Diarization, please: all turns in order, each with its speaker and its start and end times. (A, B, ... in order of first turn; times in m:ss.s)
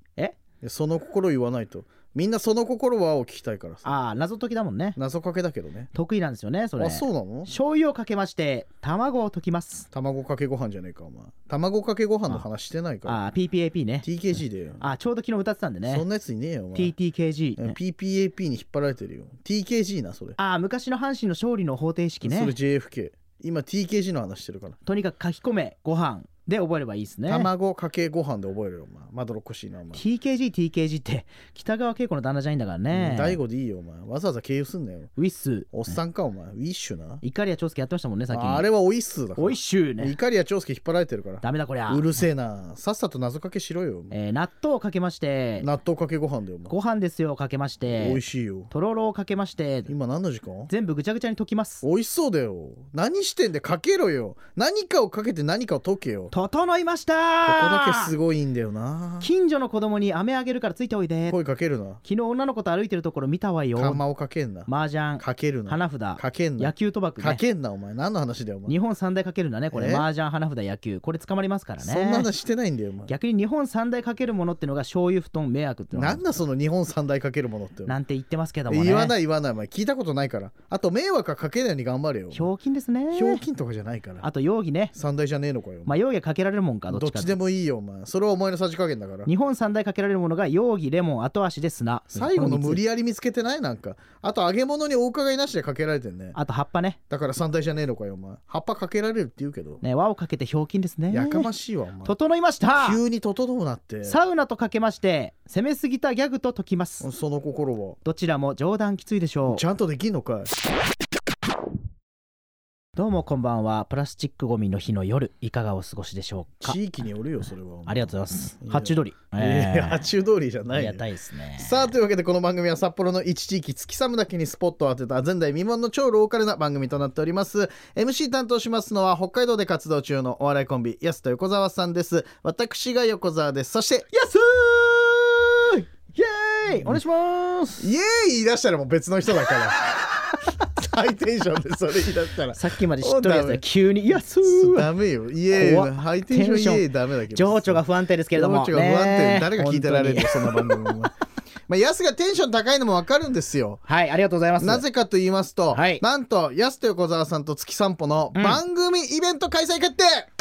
0:00.6-0:03.8 A
0:03.8-0:05.0 B
0:05.0-0:05.9 A
0:05.9-0:09.9 B
0:06.8-0:07.5 A
0:09.9-0:13.2 A
0:13.0-0:14.1 B
0:14.0-0:14.8 A
0:14.8-0:16.0 B
0:15.9-0:16.9 A
0:16.7-0:17.8 B
0:17.6-0:20.4 A
0:20.4-0:22.5 B
0:22.2-0:24.8 A
0:24.8-0:27.5 B
0:27.3-0:30.0 A
0:29.9-0:33.4 B
0:32.9-0:35.1 A
0:35.2-0:36.0 B
0:35.7-0:37.2 A
0:37.2-0:38.7 B
0:38.3-0:44.1 A
0:39.4-0:40.2 B
0:41.4-0:42.1 B
0:44.1-0:45.7 B
0:45.6-0:46.7 A
0:46.7-0:49.9 B
0:47.9-0:48.7 A
0:49.9-0:50.7 A
0:50.7-0:51.8 B
0:51.8-0:56.3 A
0:56.3-0:58.1 B
0:57.4-0:59.3 A
0:59.2-1:01.4 B
1:01.3-1:02.0 A
1:02.0-1:04.0 B
1:03.8-1:04.7 A
1:04.7-1:07.4 B
1:05.2-1:08.7 A
1:08.7-1:12.3 B
1:09.7-1:10.0 A
1:11.8-1:13.1 A
1:13.1-1:16.2 B
1:15.9-1:18.0 A
1:17.9-1:19.1 B
1:18.7-1:22.5 A
1:22.3-1:23.4 B
1:23.1-1:24.3 A
1:24.2-1:24.9 B
1:24.9-1:25.9 A
1:25.9-1:27.3 B
1:26.9-1:29.3 A
1:29.2-1:32.8 B
1:32.1-1:36.4 A
1:36.3-1:37.0 B
1:37.1-1:39.8 A
1:39.8-1:41.5 B
1:41.1-1:42.1 A
1:42.0-1:43.0 B
1:42.7-1:44.2 A
1:44.0-1:47.1 B
1:47.0-1:48.0 A
1:48.0-1:49.6 B
1:49.5-1:50.5 A
1:53.0-1:56.8 B
1:56.6-2:14.1 A
1:57.9-2:00.1 B
2:00.7-2:01.9 B
2:14.1-2:17.9 B
2:16.7-2:17.0 A
2:17.8-2:20.0 A
2:20.6-2:23.6 A
2:22.5-2:24.9 B
2:24.4-2:27.8 A
2:25.5-2:30.9 B
2:28.3-2:31.1 A
2:31.7-2:33.8 A
2:33.9-2:34.8 B
2:34.6-2:40.3 A
2:35.7-2:36.0 B
2:38.3-2:38.6 B